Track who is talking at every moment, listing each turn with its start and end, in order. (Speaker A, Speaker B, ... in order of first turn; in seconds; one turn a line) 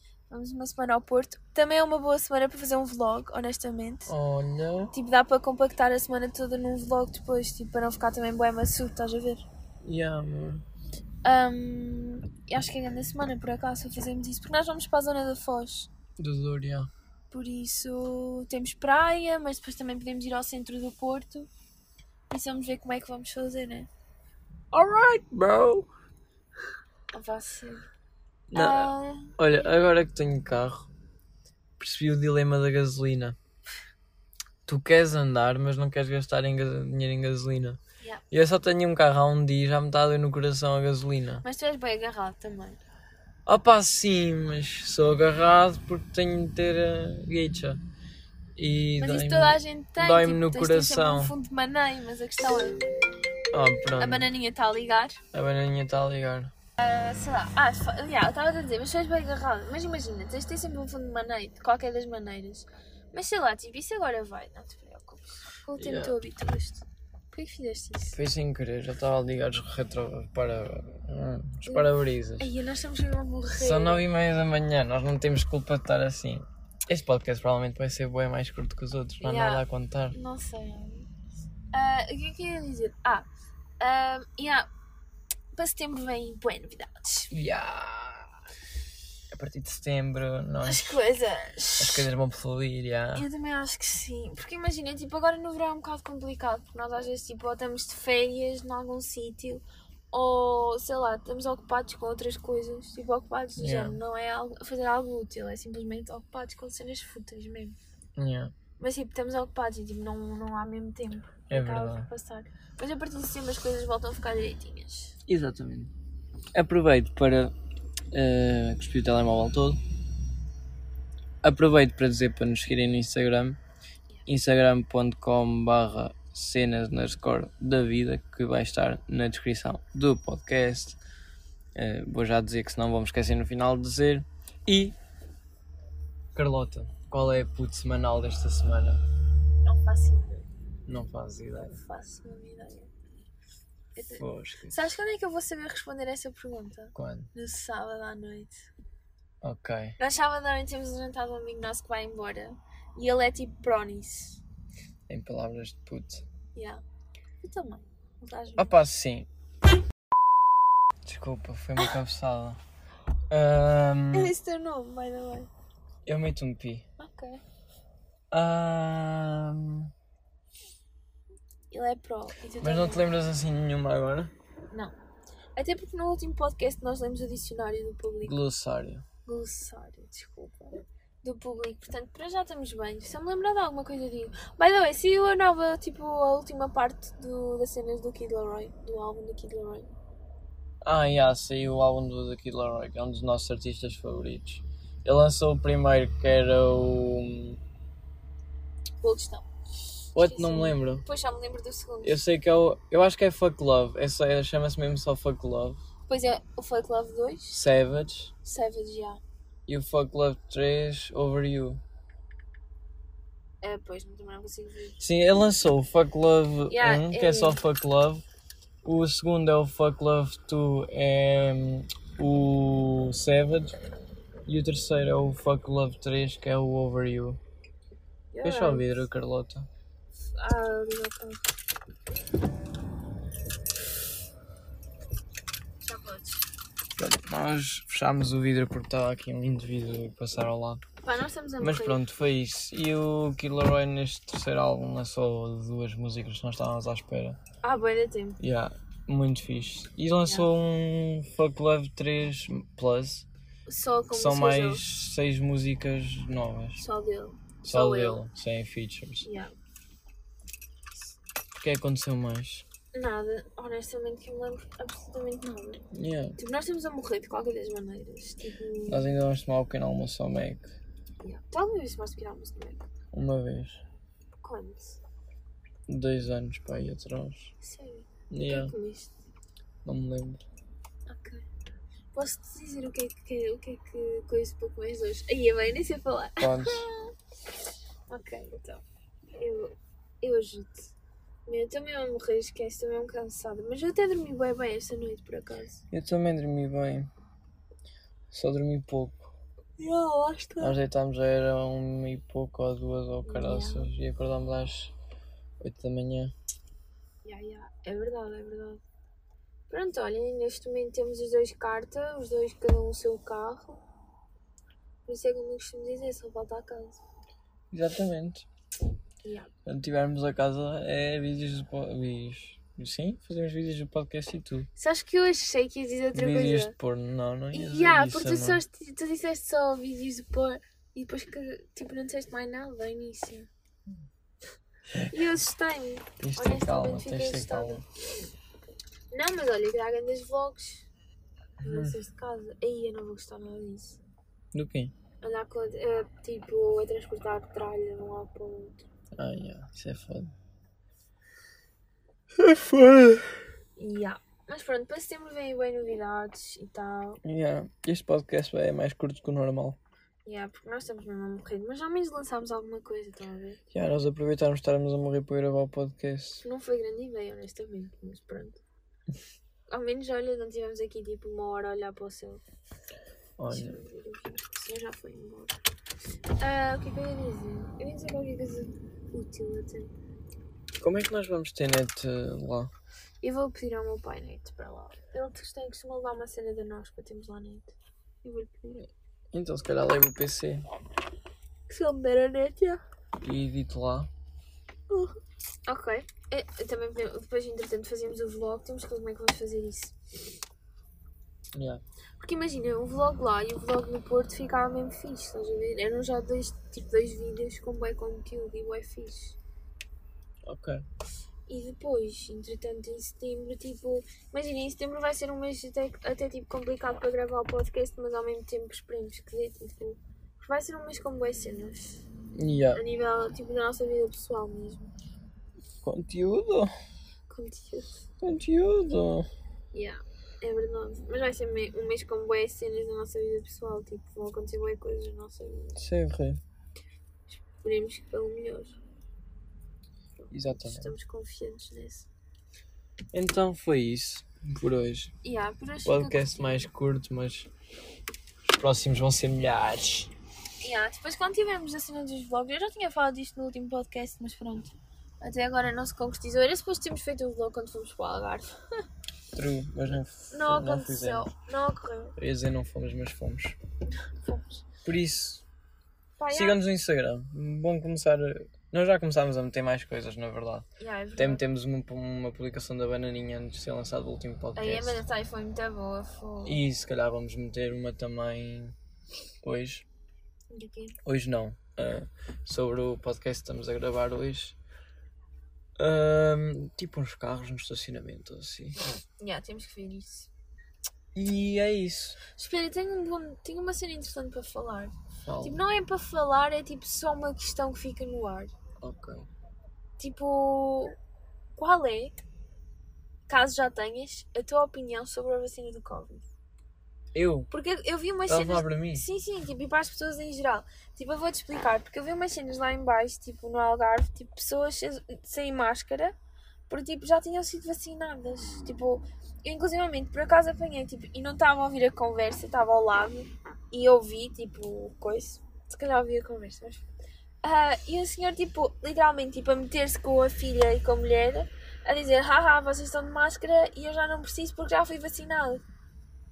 Speaker A: 0.3-4.1
Speaker B: 4.1-4.9
Speaker A: 4.9-9.4
Speaker B: 9.8-10.6
Speaker A: 11.2-15.9
Speaker B: 16.2-16.9
Speaker A: 17.3-21.5
Speaker A: 22.3-23.9
Speaker B: 24.7-25.9
Speaker A: 27.1-27.9
Speaker B: 28.5-30.9
Speaker A: 28.5-29.6
Speaker B: 31.8-33.4
Speaker B: 34.6-37.8
Speaker B: 38.3-41.4
Speaker A: 41.4-42.8
Speaker B: 43.5-47.8
Speaker B: 48.5-51.3
Speaker A: 49.0-52.8
Speaker B: 53.5-54.3
Speaker A: 54.0-55.2
Speaker B: 55.3-56.5
Speaker A: 56.8-68.2
Speaker B: 65.8-66.2
Speaker B: 68.1-72.5
Speaker A: 71.7-74.1
Speaker B: 73.5-80.2
Speaker A: 79.2-81.1
Speaker A: 81.7-83.3
Speaker A: 83.8-84.7
Speaker A: 85.5-87.3
Speaker B: 87.3-88.3
Speaker B: 89.3-91.0
Speaker A: 90.6-92.1
Speaker B: 91.8-93.2
Speaker A: 93.1-107.7
Speaker B: 103.6-104.0
Speaker B: 108.2-108.5
Speaker A: 108.8-115.1
Speaker B: 111.5-112.1
Speaker B: 115.3-115.9
Speaker B: 116.5-117.5
Speaker B: 118.1-119.8
Speaker B: 121.4-123.6
Speaker B: 124.2-131.0
Speaker B: 131.7-134.9
Speaker B: 136.3-139.0
Speaker A: 139.6-140.5
Speaker B: 140.9-141.8
Speaker A: 141.7-142.9
Speaker A: 143.9-148.6
Speaker B: 144.2-144.9
Speaker B: 146.9-147.3
Speaker B: 149.4-149.9
Speaker A: 150.0-154.4
Speaker B: 155.1-156.2
Speaker A: 156.5-156.8
Speaker A: 157.4-158.7
Speaker B: 158.6-159.3
Speaker B: 161.0-162.6
Speaker B: 163.3-164.3
Speaker A: 164.1-165.5
Speaker B: 166.1-166.8
Speaker A: 167.0-167.4
Speaker B: 168.3-169.9
Speaker A: 171.7-173.1
Speaker B: 172.6-174.3
Speaker A: 175.6-178.3
Speaker B: 178.2-179.0
Speaker A: 179.2-189.9
Speaker B: 190.8-197.6
Speaker A: 199.0-199.5
Speaker B: 200.1-201.0
Speaker A: 200.1-202.2
Speaker B: 202.0-205.8
Speaker A: 206.1-207.6
Speaker B: 207.5-208.3
Speaker A: 208.4-209.2
Speaker B: 209.7-211.8
Speaker A: 213.6-215.0
Speaker B: 215.0-218.2
Speaker A: 216.7-217.6
Speaker B: 218.8-223.8
Speaker B: 224.4-227.4
Speaker A: 228.3-228.9
Speaker B: 228.4-229.7
Speaker A: 230.3-231.4
Speaker A: 235.8-236.5
Speaker B: 237.0-240.8
Speaker A: 241.0-242.0
Speaker B: 241.6-247.4
Speaker A: 247.6-248.4
Speaker B: 248.4-253.2
Speaker A: 253.7-254.8
Speaker B: 254.1-256.8
Speaker A: 256.8-258.2
Speaker B: 257.6-259.3
Speaker A: 259.2-259.5
Speaker B: 261.6-262.6
Speaker A: 262.9-265.8
Speaker B: 265.9-266.4
Speaker A: 266.4-269.1
Speaker B: 268.9-270.7
Speaker A: 271.2-272.8
Speaker B: 273.1-273.8
Speaker A: 274.4-275.0
Speaker B: 275.9-277.5
Speaker A: 277.6-279.1
Speaker B: 278.3-278.7
Speaker B: 279.8-280.4
Speaker A: 281.1-281.4
Speaker A: 282.1-287.1
Speaker B: 286.4-286.9
Speaker A: 288.1-288.8
Speaker A: 289.4-290.9
Speaker A: 291.4-295.8
Speaker B: 295.9-297.1
Speaker B: 298.3-299.3
Speaker A: 299.8-300.8
Speaker B: 300.6-304.9
Speaker A: 303.2-303.9
Speaker B: 305.6-306.3
Speaker A: 307.2-308.8
Speaker A: 309.7-313.8
Speaker A: 315.1-317.0
Speaker B: 317.7-318.4
Speaker A: 319.2-319.5
Speaker B: 319.6-324.7
Speaker A: 324.8-326.7
Speaker B: 326.1-328.6
Speaker A: 327.5-333.5
Speaker A: 335.0-337.9
Speaker B: 336.2-337.8
Speaker A: 339.1-340.9
Speaker A: 341.6-344.0
Speaker B: 341.6-342.0
Speaker B: 344.5-344.9
Speaker A: 345.2-348.9
Speaker B: 349.1-350.3
Speaker B: 352.4-353.4
Speaker A: 353.8-357.2
Speaker B: 357.2-359.8
Speaker A: 360.2-363.6
Speaker B: 363.7-366.4
Speaker A: 366.4-368.6
Speaker A: 369.7-372.4
Speaker B: 373.4-373.8
Speaker A: 373.5-375.6
Speaker A: 376.4-379.9
Speaker B: 380.8-382.7
Speaker A: 383.2-388.9
Speaker B: 389.3-390.7
Speaker A: 391.7-392.8
Speaker B: 393.2-394.1
Speaker A: 394.9-399.9
Speaker B: 401.5-401.8
Speaker A: 402.2-409.4
Speaker B: 410.5-410.8
Speaker A: 411.5-422.0
Speaker B: 422.3-422.8
Speaker A: 422.7-424.9
Speaker B: 425.8-426.7
Speaker A: 427.3-427.9
Speaker B: 428.2-429.3
Speaker A: 429.7-435.8
Speaker B: 435.8-436.4
Speaker A: 437.3-438.8
Speaker A: 440.2-442.1
Speaker B: 440.3-440.9
Speaker B: 443.1-445.1
Speaker A: 445.2-446.7
Speaker B: 445.8-447.5
Speaker B: 448.4-450.1
Speaker A: 450.6-458.5
Speaker B: 459.3-461.3
Speaker A: 460.3-462.1
Speaker B: 462.2-463.6
Speaker A: 464.0-464.6
Speaker B: 464.8-465.4
Speaker A: 466.2-466.6
Speaker B: 466.3-470.6
Speaker A: 470.8-471.4
Speaker B: 471.2-475.0
Speaker A: 474.6-476.6
Speaker B: 476.4-478.7
Speaker B: 479.4-479.9
Speaker A: 480.5-481.0
Speaker B: 481.0-484.6
Speaker B: 485.8-488.8
Speaker A: 489.2-490.3
Speaker B: 491.1-492.2
Speaker A: 492.3-498.5
Speaker B: 495.2-495.6
Speaker B: 498.8-499.3
Speaker A: 500.0-500.9
Speaker A: 501.6-502.2
Speaker A: 503.3-506.3
Speaker B: 507.1-507.5
Speaker A: 507.5-516.1
Speaker B: 508.3-509.1
Speaker A: 516.7-526.8
Speaker A: 527.4-535.6